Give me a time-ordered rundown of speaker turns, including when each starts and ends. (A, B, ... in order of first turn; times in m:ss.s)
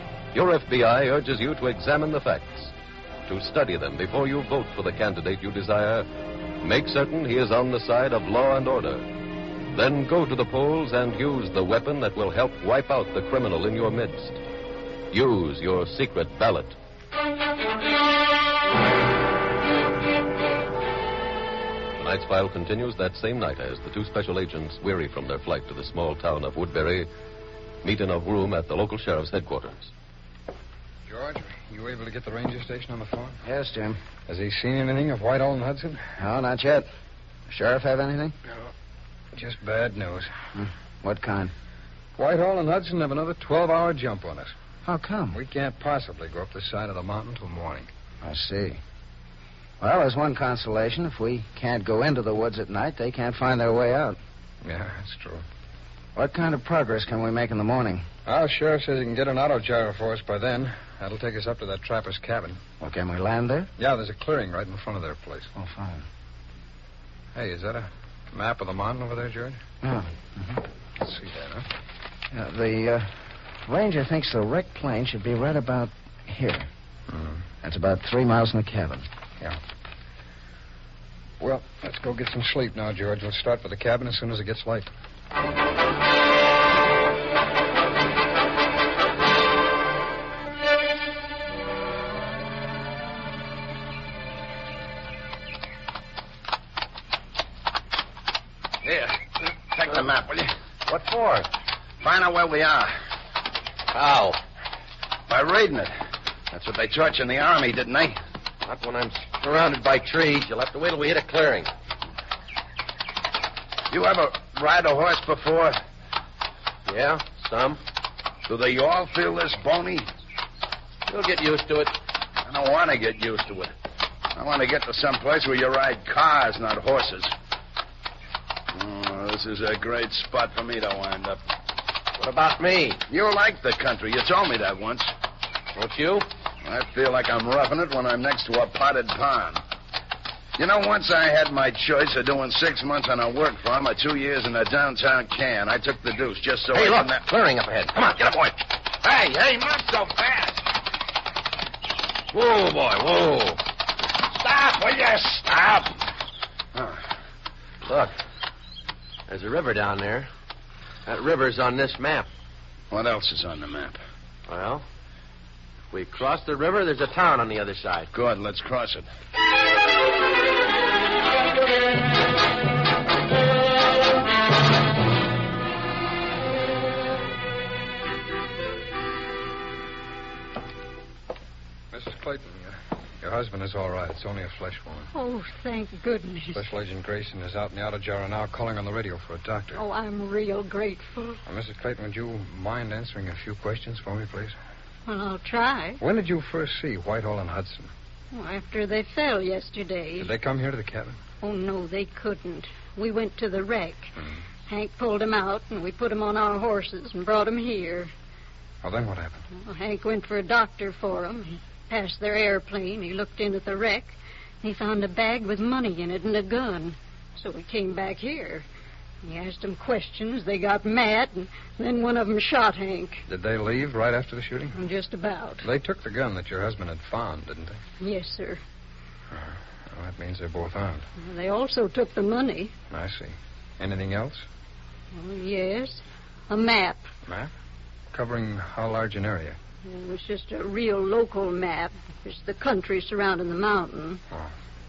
0:00.3-0:02.7 A
0:03.3-0:06.1 A
0:06.6-0:09.1 A
0:09.7-0:14.4 A
0:15.1-0:16.8 A
0:22.0-0:27.1 A
0:27.8-0:29.9 A
0:31.1-0:33.4 B
0:33.4-0:34.0 C
0:34.3-0:36.0 B
0:36.2-0:36.9 C
0:37.5-0:38.4 C
0:39.3-0:40.3 B
0:40.6-0:41.5 C
0:42.2-0:44.5 B
0:44.8-0:45.4 C
0:45.3-0:47.9 B
0:48.2-0:48.8 C
0:49.8-0:54.2 C
0:54.6-0:55.4 B
0:56.2-0:58.1 C
0:58.3-1:02.6 B
1:02.8-1:03.7 C
1:03.8-1:05.5 B
1:05.6-1:06.0 C
1:07.4-1:09.6 B
1:09.8-1:10.6 C
1:11.0-1:11.6 B
1:12.3-1:16.7 C
1:17.1-1:17.4 B
1:17.6-1:19.1 C
1:21.4-1:24.9 B
1:38.8-1:39.2 D
1:39.7-1:40.5 D
1:40.9-1:41.5 E
1:42.0-1:43.0 D
1:43.9-1:44.4 E
1:45.3-1:45.9 D
1:46.5-1:48.2 D
1:48.6-1:51.7 E
1:53.9-1:55.8 D
1:56.9-1:57.8 E
1:58.5-2:00.1 D
2:01.1-2:02.0 E
2:02.4-2:03.7 D
2:04.4-2:07.3 D
2:08.7-2:11.4 D
2:12.2-2:13.0 E
2:13.1-2:15.1 D
2:15.8-2:16.3 E
2:16.6-2:19.6 D
2:20.6-2:27.2 D
2:26.7-2:28.6 E
2:29.0-2:30.7 D
2:32.3-2:33.6 E
2:34.3-2:35.9 D
2:36.8-2:37.0 D
2:37.8-2:38.1 E
2:39.3-2:40.3 E
2:41.1-2:42.3 E
2:42.9-2:44.0 D
2:44.5-2:44.8 E
2:45.9-2:48.1 E
2:48.1-2:49.1 D
3:01.9-3:05.1 B
3:05.1-3:06.6 F
3:06.5-3:09.8 B
3:09.7-3:11.4 F
3:11.5-3:14.6 B
3:15.1-3:16.0 F
3:16.0-3:17.9 B
3:18.3-3:20.3 F
3:20.2-3:21.2 B
3:21.4-3:24.1 F
3:24.7-3:28.1 F
3:28.8-3:29.4 B
3:29.5-3:38.7 F
3:39.2-3:43.2 F
3:43.3-3:44.8 B
3:44.7-3:45.7 F
3:45.6-3:47.8 B
3:48.0-3:48.6 F
3:49.3-3:51.1 B
3:51.2-3:52.7 F
3:52.9-3:54.5 B
3:55.1-3:57.0 F
3:58.1-3:59.6 B
3:59.8-4:04.2 F